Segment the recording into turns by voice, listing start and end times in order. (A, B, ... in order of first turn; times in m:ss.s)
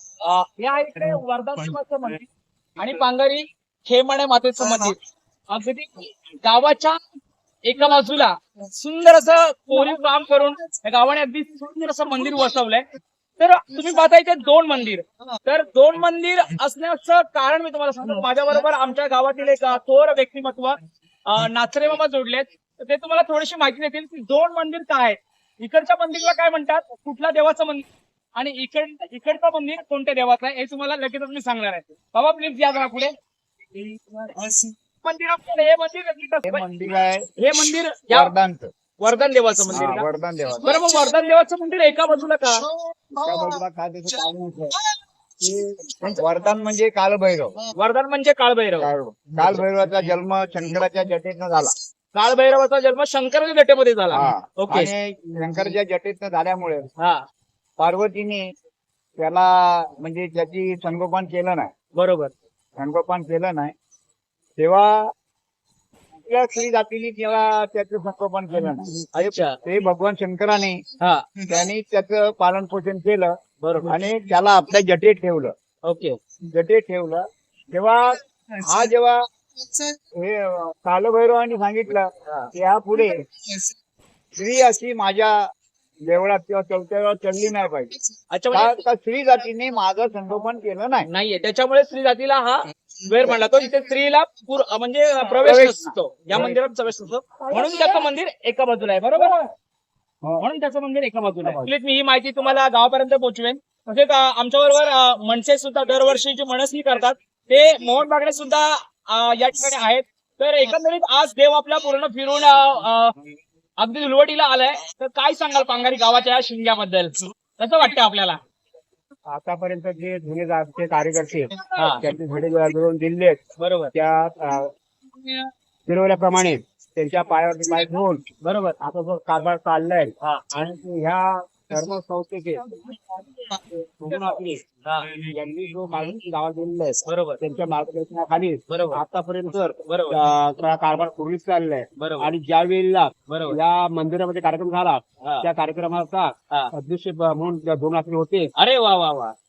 0:00.2-0:02.3 A
0:02.8-0:05.0 A
0:05.5-0:07.0 A
0:07.6-0:12.8 A
0:13.4-0:27.8 A
0:28.4-0:33.1 A
0:33.8-0:34.3 A
0:35.0-0:36.6 A
0:36.5-0:37.3 B
0:37.4-0:38.3 A
0:38.1-0:38.7 B
0:39.0-0:40.0 A
0:39.7-0:40.7 B
0:40.6-0:42.6 A
0:43.2-0:44.7 B
0:45.4-0:47.6 B
0:47.8-0:48.9 A
0:48.8-0:51.7 B
0:52.1-0:54.9 A
0:54.1-0:56.9 B
0:57.8-0:58.4 B
0:59.2-1:01.7 B
1:02.0-1:02.3 A
1:02.8-1:03.7 B
1:04.6-1:05.0 B
1:06.3-1:10.8 B
1:09.1-1:09.6 A
1:11.5-1:13.3 B
1:13.6-1:14.0 A
1:13.8-1:15.5 B
1:15.9-1:16.2 A
1:16.5-1:19.2 B
1:20.2-1:23.2 B
1:24.4-1:25.4 B
1:26.1-1:27.9 B
1:28.3-1:28.8 A
1:28.5-1:31.1 B
1:31.0-1:39.5 A
1:35.4-1:36.6 B
1:40.4-1:53.1 A
1:41.3-1:41.7 B
1:53.8-1:58.4 A
1:59.3-2:03.4 B
2:01.8-2:02.0 A
2:03.6-2:03.9 A
2:03.9-2:04.7 B
2:05.9-2:08.2 B
2:08.4-2:08.8 A
2:08.8-2:12.6 B
2:13.9-2:14.6 B
2:14.1-2:15.1 A
2:15.2-2:28.5 B
2:17.1-2:17.4 A
2:18.7-2:19.0 A
2:19.8-2:20.2 A
2:22.0-2:22.4 A
2:23.3-2:23.6 A
2:25.2-2:25.5 A
2:28.6-2:29.3 A